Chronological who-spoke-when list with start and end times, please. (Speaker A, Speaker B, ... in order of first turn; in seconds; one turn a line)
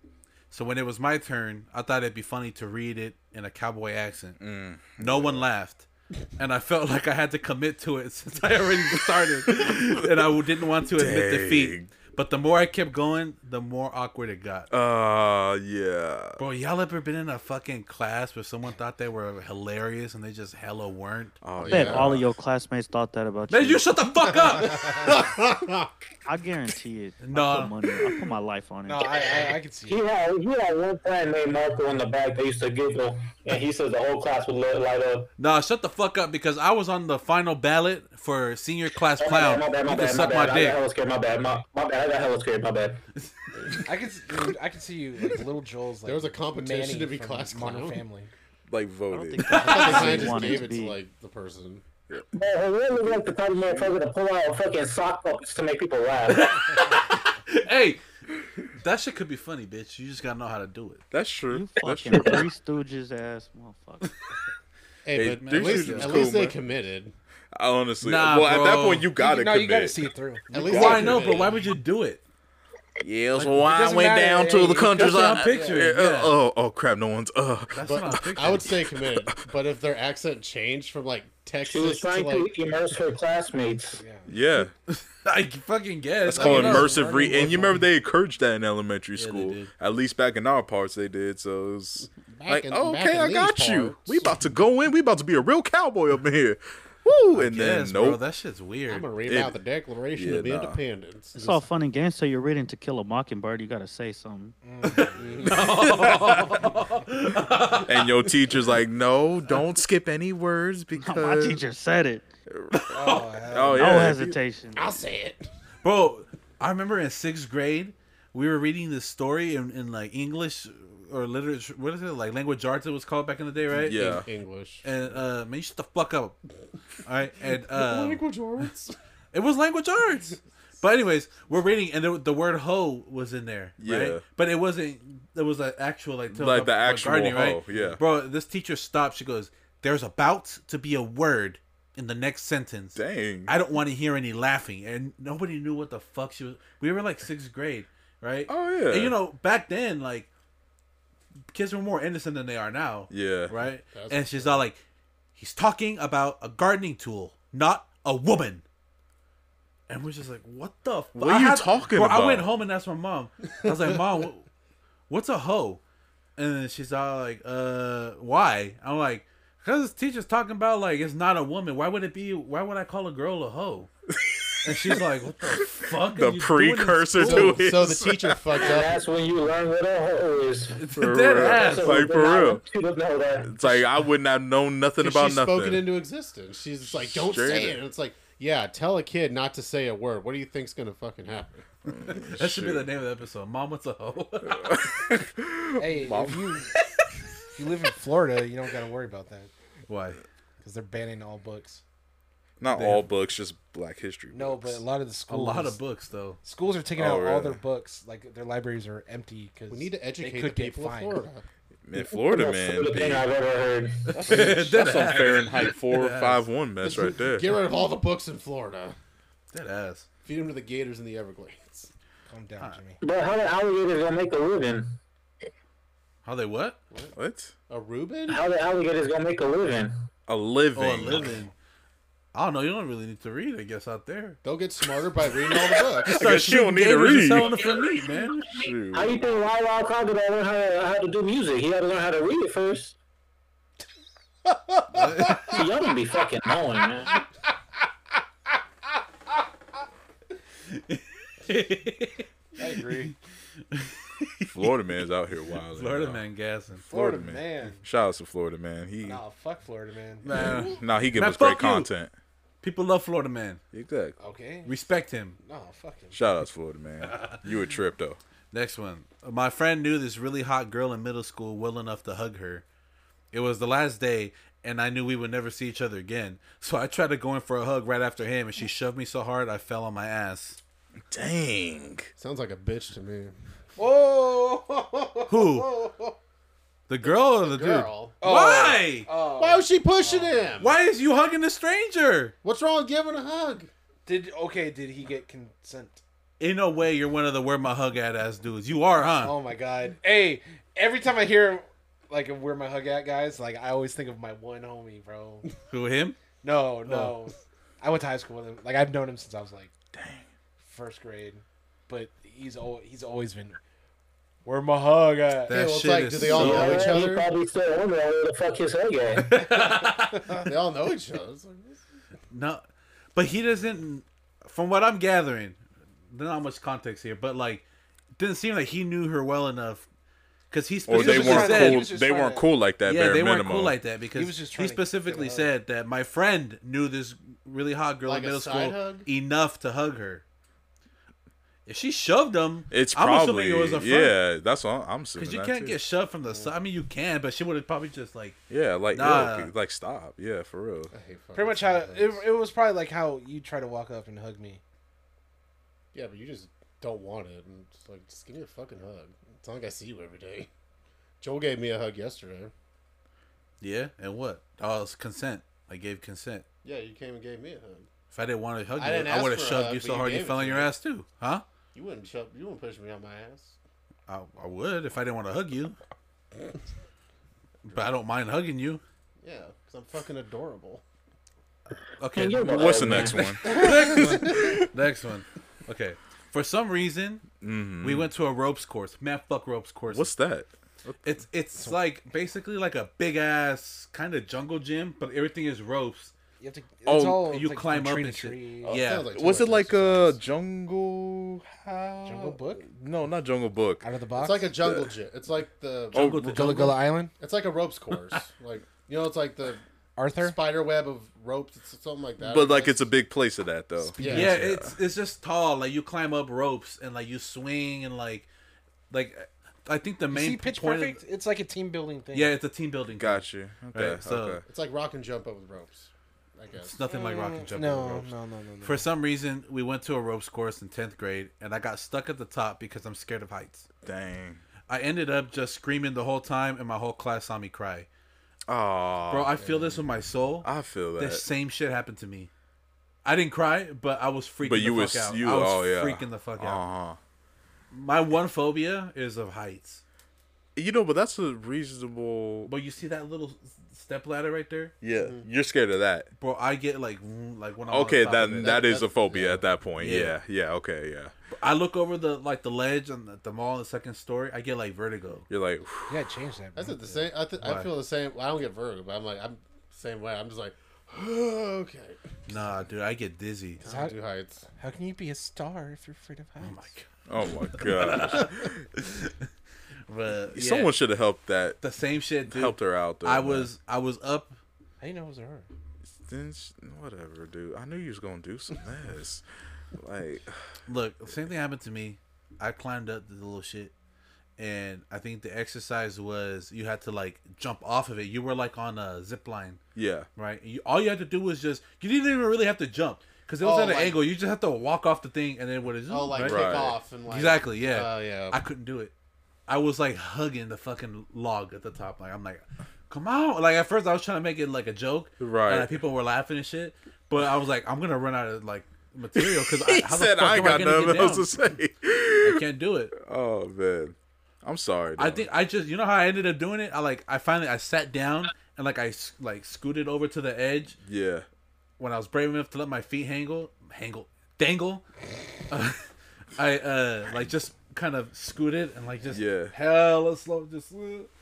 Speaker A: 0.5-4.4
Speaker B: 4.4-5.5
Speaker A: 5.0-14.7
Speaker B: 9.5-10.1
Speaker B: 10.9-11.9
Speaker B: 14.7-16.4
Speaker A: 16.4-21.4
Speaker B: 21.4-22.3
Speaker C: 21.6-22.2
Speaker D: 21.6-23.9
Speaker A: 23.5-25.2
Speaker D: 24.6-25.2
Speaker C: 25.0-25.9
Speaker D: 26.2-29.2
Speaker A: 27.2-27.7
Speaker E: 28.8-30.0
Speaker F: 29.9-35.3
Speaker A: 35.4-40.8
Speaker F: 39.2-43.0
Speaker A: 43.1-43.8
Speaker E: 43.9-48.3
Speaker C: 46.0-48.0
Speaker B: 48.7-50.5
Speaker D: 49.1-51.0
Speaker A: 49.4-50.3
Speaker C: 49.5-51.8
Speaker F: 52.3-56.7
Speaker A: 56.3-58.0
Speaker A: 58.7-61.0
Speaker B: 61.1-62.5
Speaker D: 61.5-64.1
Speaker C: 65.0-67.1
Speaker B: 65.1-66.6
Speaker A: 65.3-66.3
Speaker B: 67.5-71.2
Speaker A: 68.0-69.1
Speaker E: 69.2-71.0
Speaker C: 70.5-71.8
Speaker A: 70.6-72.2
Speaker B: 73.0-77.9
Speaker E: 73.4-75.9
Speaker A: 74.9-76.3
Speaker A: 77.7-78.7
Speaker C: 77.8-82.5
Speaker B: 78.6-79.3
Speaker F: 81.7-84.0
Speaker E: 84.0-84.3
Speaker B: 84.3-84.7
Speaker A: 84.9-87.0
Speaker B: 86.3-98.2
Speaker C: 86.3-87.8
Speaker E: 86.4-87.5
Speaker A: 89.2-89.7
Speaker C: 92.3-94.4
Speaker A: 97.3-99.1
Speaker C: 98.9-101.7
Speaker B: 99.3-99.6
Speaker B: 100.2-100.8
Speaker D: 101.3-104.5
Speaker E: 104.6-105.6
Speaker A: 105.0-108.2
Speaker C: 105.2-105.8
Speaker B: 107.8-111.6
Speaker D: 111.0-112.2
Speaker B: 112.5-114.4
Speaker A: 112.7-113.2
Speaker E: 112.9-114.1
Speaker D: 113.7-114.9
Speaker C: 114.7-115.5
Speaker A: 115.8-124.3
Speaker B: 123.7-124.3
Speaker C: 124.0-124.9
Speaker A: 124.8-126.4
Speaker A: 127.0-128.2
Speaker C: 127.7-128.9
Speaker A: 129.3-150.3
Speaker B: 133.8-134.2
Speaker B: 136.3-138.0
Speaker C: 137.7-138.0
Speaker B: 142.9-143.6
Speaker B: 148.5-149.2
Speaker A: 151.5-154.8
Speaker B: 153.1-153.5
Speaker C: 153.9-154.7
Speaker A: 155.3-158.6
Speaker A: 159.9-164.4
Speaker B: 161.1-162.5
Speaker A: 165.1-165.8
Speaker A: 166.4-173.9
Speaker B: 174.1-175.0
Speaker A: 174.6-177.6
Speaker B: 176.0-178.6
Speaker C: 177.2-179.0
Speaker F: 178.6-180.8
Speaker A: 180.8-182.0
Speaker B: 180.9-182.6
Speaker F: 181.3-183.6
Speaker B: 183.4-185.9
Speaker C: 185.0-191.7
Speaker B: 186.8-187.8
Speaker B: 191.8-192.9
Speaker A: 192.0-194.9
Speaker B: 194.4-196.6
Speaker E: 195.8-196.7
Speaker E: 197.5-199.5
Speaker A: 199.9-200.2
Speaker E: 200.6-201.8
Speaker B: 202.6-204.8
Speaker A: 202.7-203.1
Speaker E: 204.3-205.8
Speaker A: 205.3-206.4
Speaker E: 206.4-211.2
Speaker B: 206.9-207.6
Speaker C: 209.7-211.4
Speaker B: 211.8-213.3
Speaker F: 212.0-214.1
Speaker A: 214.1-216.4
Speaker B: 214.2-217.5
Speaker C: 216.8-218.9
Speaker A: 219.5-220.1
Speaker C: 220.2-221.9
Speaker E: 222.3-223.0
Speaker F: 223.0-224.9
Speaker A: 226.2-226.8
Speaker B: 227.2-227.5
Speaker C: 227.7-228.4
Speaker F: 228.3-229.9
Speaker B: 230.3-231.3
Speaker A: 230.7-231.5
Speaker A: 232.3-234.4
Speaker C: 234.4-236.2
Speaker A: 236.0-238.6
Speaker B: 236.0-237.6
Speaker B: 238.5-239.2
Speaker F: 238.9-242.9
Speaker E: 244.4-245.6
Speaker A: 244.9-245.6
Speaker F: 245.5-247.2
Speaker A: 250.7-253.2
Speaker E: 252.6-253.1
Speaker A: 253.7-254.7
Speaker B: 254.5-256.2
Speaker A: 255.7-256.9
Speaker B: 256.8-259.2
Speaker E: 256.9-257.8
Speaker E: 259.0-260.6
Speaker A: 260.2-261.9
Speaker B: 260.3-262.1
Speaker A: 262.6-263.6
Speaker B: 263.7-264.2
Speaker E: 264.2-264.8
Speaker A: 264.6-265.4
Speaker E: 265.4-266.3
Speaker B: 266.1-268.2
Speaker A: 267.0-267.4
Speaker A: 268.5-272.6
Speaker A: 273.3-280.6
Speaker B: 281.1-282.1
Speaker C: 282.2-283.3
Speaker E: 283.8-286.1
Speaker A: 285.3-285.7
Speaker A: 286.9-289.1
Speaker C: 287.1-288.2
Speaker E: 288.2-290.5
Speaker C: 289.4-290.8
Speaker A: 290.6-292.3
Speaker C: 292.4-293.7
Speaker E: 294.1-296.0
Speaker A: 296.4-299.4
Speaker E: 299.2-305.5
Speaker A: 305.7-306.2
Speaker E: 306.4-309.7
Speaker A: 306.8-307.1
Speaker B: 309.9-310.3
Speaker E: 310.6-313.6
Speaker E: 314.4-315.6
Speaker A: 315.5-317.0
Speaker C: 315.5-317.3
Speaker F: 316.3-319.4
Speaker A: 319.2-320.3
Speaker C: 320.4-321.8
Speaker A: 322.3-322.6
Speaker A: 323.1-325.6
Speaker A: 326.1-327.6
Speaker A: 328.2-329.9
Speaker A: 330.5-331.9
Speaker B: 330.9-333.8
Speaker E: 330.9-332.5
Speaker A: 332.8-340.2
Speaker E: 334.1-335.5
Speaker C: 338.0-339.1
Speaker A: 341.6-344.2
Speaker B: 342.7-345.8
Speaker A: 345.1-348.4
Speaker B: 348.5-350.9
Speaker A: 348.9-349.5
Speaker C: 350.9-352.2
Speaker E: 351.3-354.6
Speaker C: 355.9-360.5
Speaker C: 361.2-362.5
Speaker A: 363.6-366.4
Speaker C: 366.6-367.9
Speaker A: 368.1-371.4
Speaker C: 368.8-370.7
Speaker C: 371.7-373.6
Speaker A: 374.1-375.8
Speaker A: 377.6-378.8
Speaker C: 379.2-380.8
Speaker A: 381.8-387.2
Speaker F: 382.1-383.4
Speaker B: 382.4-384.6
Speaker C: 383.5-384.5
Speaker B: 387.4-388.1
Speaker A: 387.8-390.1
Speaker B: 389.9-391.2
Speaker A: 391.0-396.1
Speaker E: 396.4-398.8
Speaker B: 396.9-397.2
Speaker A: 396.9-399.1
Speaker C: 398.6-400.1
Speaker B: 399.1-403.8
Speaker E: 402.0-402.7
Speaker E: 403.8-404.5
Speaker C: 404.1-406.1
Speaker B: 404.6-404.9
Speaker B: 405.9-406.7
Speaker A: 405.9-406.7
Speaker E: 406.2-407.1
Speaker C: 407.2-409.6
Speaker A: 407.9-408.2
Speaker E: 410.0-410.4
Speaker C: 410.2-412.9
Speaker B: 412.2-414.8
Speaker E: 413.8-414.3
Speaker C: 414.0-414.3
Speaker A: 414.1-418.3
Speaker A: 418.9-421.0
Speaker E: 420.1-422.3
Speaker A: 422.1-424.4
Speaker B: 423.0-424.4
Speaker C: 424.4-426.8
Speaker A: 426.6-428.1
Speaker E: 426.9-428.9
Speaker A: 428.6-433.6
Speaker B: 433.8-434.4
Speaker A: 434.7-437.9
Speaker B: 438.5-439.4
Speaker A: 439.1-442.3
Speaker C: 439.4-439.8
Speaker B: 440.4-441.2
Speaker A: 443.0-446.6
Speaker B: 444.4-447.0
Speaker A: 447.7-449.8
Speaker B: 450.6-452.5
Speaker A: 452.4-454.7
Speaker B: 454.8-456.1
Speaker C: 454.9-455.2
Speaker A: 456.2-458.6
Speaker B: 457.7-461.1
Speaker C: 458.4-459.4
Speaker A: 459.8-460.1
Speaker A: 461.3-465.3
Speaker B: 465.3-466.0
Speaker E: 465.9-467.1
Speaker C: 466.6-472.1
Speaker A: 467.4-467.7
Speaker A: 472.3-473.6
Speaker C: 473.6-474.4
Speaker E: 473.6-474.0
Speaker E: 474.5-476.7
Speaker A: 476.4-476.9
Speaker B: 477.1-478.6
Speaker A: 477.5-479.3
Speaker A: 479.9-480.7
Speaker B: 480.3-481.6
Speaker A: 481.6-484.4
Speaker B: 482.2-483.5
Speaker E: 484.8-485.5
Speaker B: 486.0-489.2
Speaker B: 489.7-490.4
Speaker A: 490.7-493.7
Speaker A: 494.4-499.6
Speaker B: 499.7-500.1
Speaker A: 500.1-506.5
Speaker C: 503.4-504.0
Speaker C: 505.9-508.4
Speaker B: 506.2-506.8
Speaker A: 507.1-508.9
Speaker A: 509.5-521.3
Speaker B: 515.2-515.8
Speaker B: 519.1-522.4
Speaker A: 522.2-522.9
Speaker B: 522.9-525.2
Speaker A: 525.0-530.8
Speaker B: 530.8-531.2
Speaker A: 531.8-534.9
Speaker A: 535.5-541.1
Speaker B: 539.1-539.5